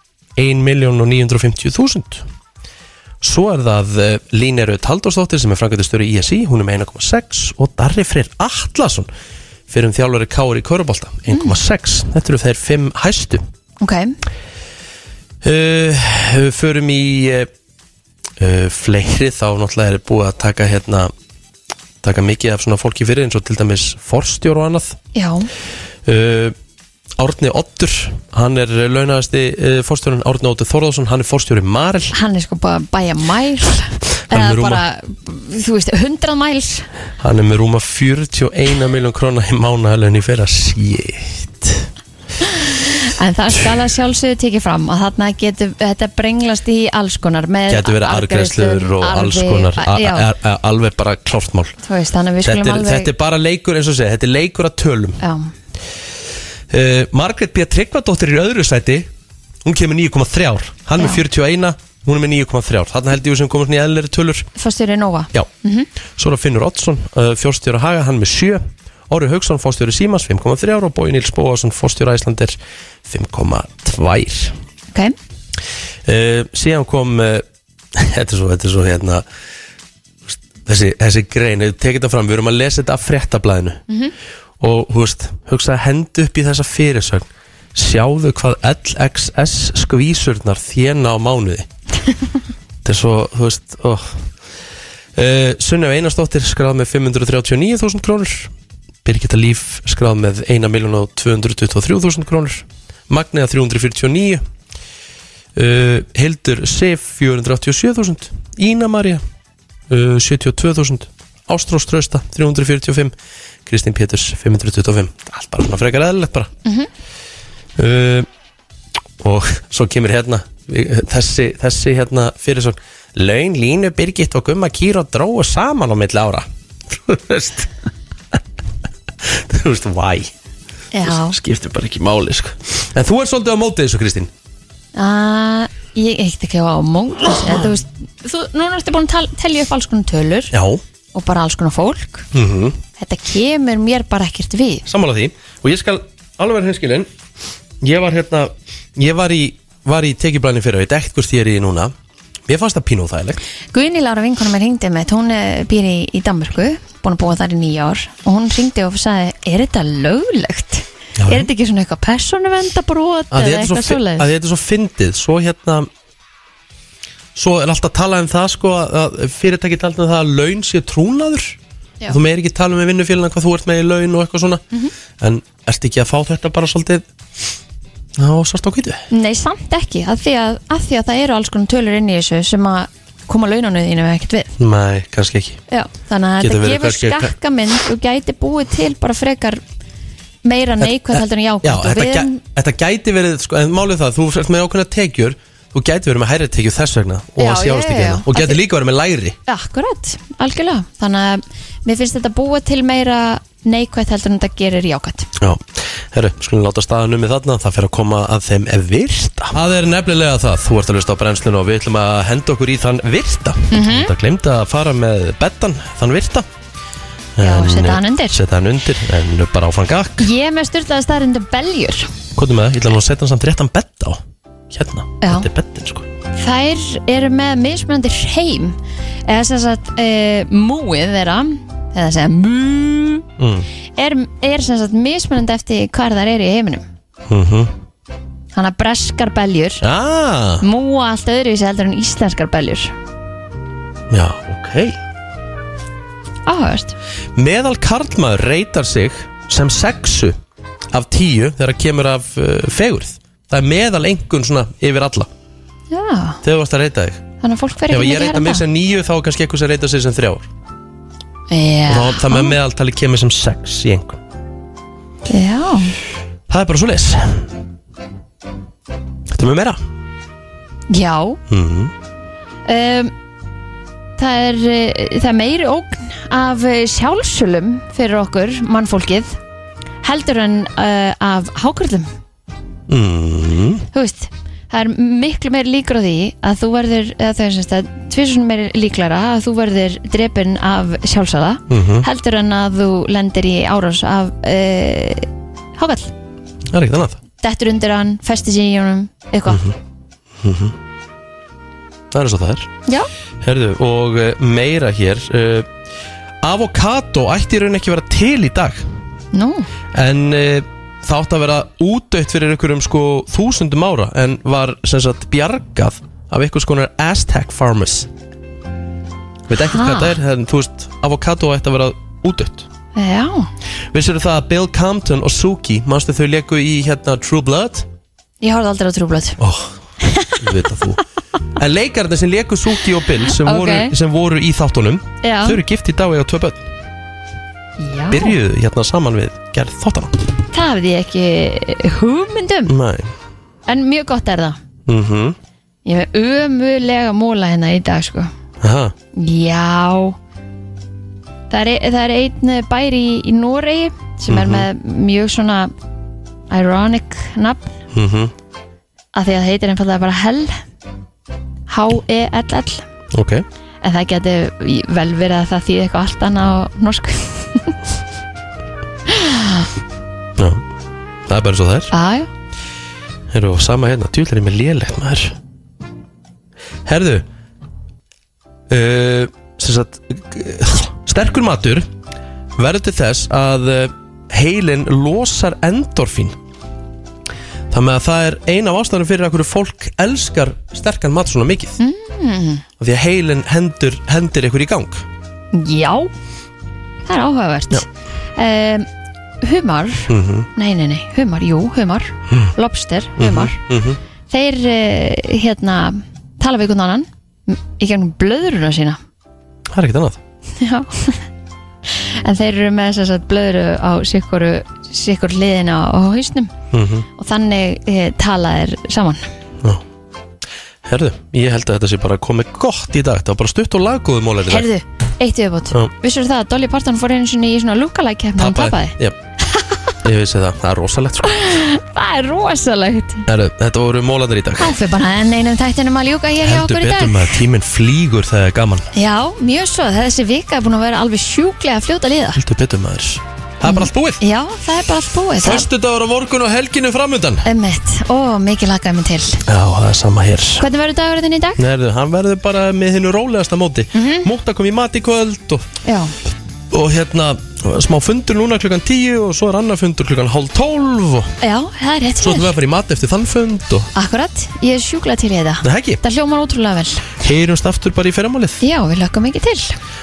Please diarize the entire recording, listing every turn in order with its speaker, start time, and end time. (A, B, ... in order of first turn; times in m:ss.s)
0:00.4-0:02.2 A
0:03.2-0:09.1 A
0:09.7-0:13.4 A
0:11.3-0:11.6 B
0:13.8-0:14.2 B
0:15.4-0:17.5 A
0:18.4-0:21.1 A
0:22.0-0:25.0 A
0:25.1-0:25.5 B
0:26.0-0:26.5 A
0:27.2-0:32.1 A
0:32.1-0:36.9 B
0:34.3-0:34.8 A
0:37.2-0:41.9 A
0:42.4-0:50.3 B
0:47.7-0:51.8 A
0:51.8-0:53.1 B
0:52.4-0:55.2 A
0:55.2-0:55.5 B
0:56.7-0:59.1 A
0:59.6-1:04.5 A
1:04.6-1:05.9 B
1:06.2-1:14.6 A
1:16.0-1:19.2 A
1:20.3-1:23.8 A
1:24.6-1:31.7 A
1:32.8-1:34.2 A
1:35.2-1:38.5 A
1:39.0-1:44.4 A
1:45.6-1:49.2 A
1:49.9-1:53.1 A
1:53.6-1:56.5 A
1:57.8-1:58.3 A
1:59.2-2:07.7 A
2:09.2-2:10.3 A
2:10.9-2:11.4 B
2:11.0-2:14.3 A
2:14.9-2:20.5 B
2:20.5-2:20.8 A
2:21.1-2:22.3 B
2:22.3-2:22.8 A
2:23.0-2:24.8 B
2:24.8-2:27.1 A
2:27.8-2:31.9 A
2:32.5-2:33.4 A
2:33.7-2:44.3 B
2:41.2-2:41.5 A
2:43.3-2:45.9 A
2:47.3-2:51.6 A
2:52.1-2:54.6 A
2:55.2-2:57.0 A
2:58.2-2:59.1 A
2:59.1-3:04.5 B
3:04.6-3:05.6 A
3:05.7-3:09.6 B
3:06.4-3:07.3 A
3:10.4-3:12.4 B
3:11.6-3:19.4 A
3:17.4-3:18.6 B
3:19.4-3:25.3 B
3:25.4-3:36.5 A
3:33.7-3:34.1 B
3:37.4-3:40.3 A
3:37.4-3:38.4 B
3:40.2-3:42.1 B
3:42.3-3:46.0 A
3:45.2-3:45.5 B
3:46.3-3:53.2 B
3:53.4-3:53.7 A
3:54.0-3:56.8 B
3:57.3-3:57.7 A
3:58.5-3:59.8 B
3:59.8-4:00.6 A
4:00.6-4:02.9 B
4:04.1-4:05.0 A
4:06.4-4:07.0 B
4:07.3-4:10.4 A
4:10.9-4:15.3 A
4:15.9-4:16.4 B
4:16.4-4:17.2 A
4:17.4-4:18.6 B
4:17.9-4:20.5 A
4:21.5-4:22.5 B
4:21.9-4:24.2 A
4:25.3-4:25.9 B
4:26.5-4:27.5 A
4:29.3-4:29.8 A
4:30.9-4:31.4 B
4:31.5-4:31.9 A
4:32.6-4:33.1 B
4:34.2-4:39.4 B
4:40.0-4:42.1 B
4:42.9-4:43.8 A
4:43.9-4:56.1 B
4:51.7-4:52.0 A
4:56.7-4:57.2 A
4:57.4-4:59.6 B
4:59.5-4:59.8 A
5:00.4-5:00.8 A
5:02.1-5:02.7 A
5:03.4-5:05.7 A
5:06.4-5:08.8 A
5:09.3-5:09.7 B
5:09.9-5:18.1 A
5:19.5-5:22.7 A
5:19.6-5:20.1 B
5:22.9-5:23.5 B
5:23.9-5:27.9 A
5:28.4-5:29.4 B
5:29.4-5:29.8 A
5:30.0-5:30.4 B
5:30.4-5:31.0 A
5:31.6-5:36.7 A
5:33.3-5:33.9 B
5:35.2-5:35.6 B
5:37.8-5:38.4 B
5:38.1-5:40.2 A
5:40.5-5:42.8 B
5:42.6-5:43.1 A
5:43.7-5:44.6 B
5:44.8-5:45.4 A
5:45.8-5:48.3 B
5:48.6-5:48.9 A
5:49.2-5:50.2 B
5:51.5-5:55.7 B
5:54.3-5:54.7 A
5:56.5-5:57.7 B
5:57.9-5:58.3 A
5:59.1-6:00.6 B
6:01.7-6:02.8 B
6:03.1-6:03.4 A
6:03.8-6:07.8 B
6:09.1-6:09.7 B
6:10.4-6:10.6 A
6:11.3-6:11.9 A
6:11.9-6:12.3 B
6:13.3-6:15.4 A
6:16.8-6:17.2 A
6:18.7-6:21.9 A
6:22.6-6:26.4 A
6:27.7-6:31.8 A
6:31.8-6:32.6 B
6:32.8-6:35.1 A
6:35.5-6:36.1 B
6:37.0-6:38.9 B
6:39.4-6:43.6 B
6:40.1-6:40.5 A
6:43.2-6:44.0 A
6:44.3-6:49.0 B
6:49.7-6:50.2 A
6:50.6-6:51.2 B
6:51.8-6:56.5 B
6:56.7-6:57.1 A
6:57.2-6:59.3 B
7:00.8-7:04.7 A
7:04.4-7:09.0 B
7:08.4-7:09.2 A
7:10.0-7:11.4 A
7:11.2-7:13.2 B
7:13.3-7:14.7 A
7:14.6-7:17.4 B
7:16.4-7:18.9 A
7:18.9-7:22.4 B
7:22.4-7:24.2 A
7:23.6-7:25.7 B
7:25.4-7:27.4 A
7:27.4-7:29.4 B
7:29.5-7:30.7 A
7:30.6-7:31.6 B
7:31.6-7:35.7 A
7:33.9-7:34.3 B
7:35.8-7:36.1 B
7:36.7-7:41.3 A
7:41.4-7:42.5 B
7:42.2-7:43.9 A
7:43.9-7:47.2 B
7:45.6-7:46.0 A
7:47.2-7:48.6 A
7:48.6-7:49.8 B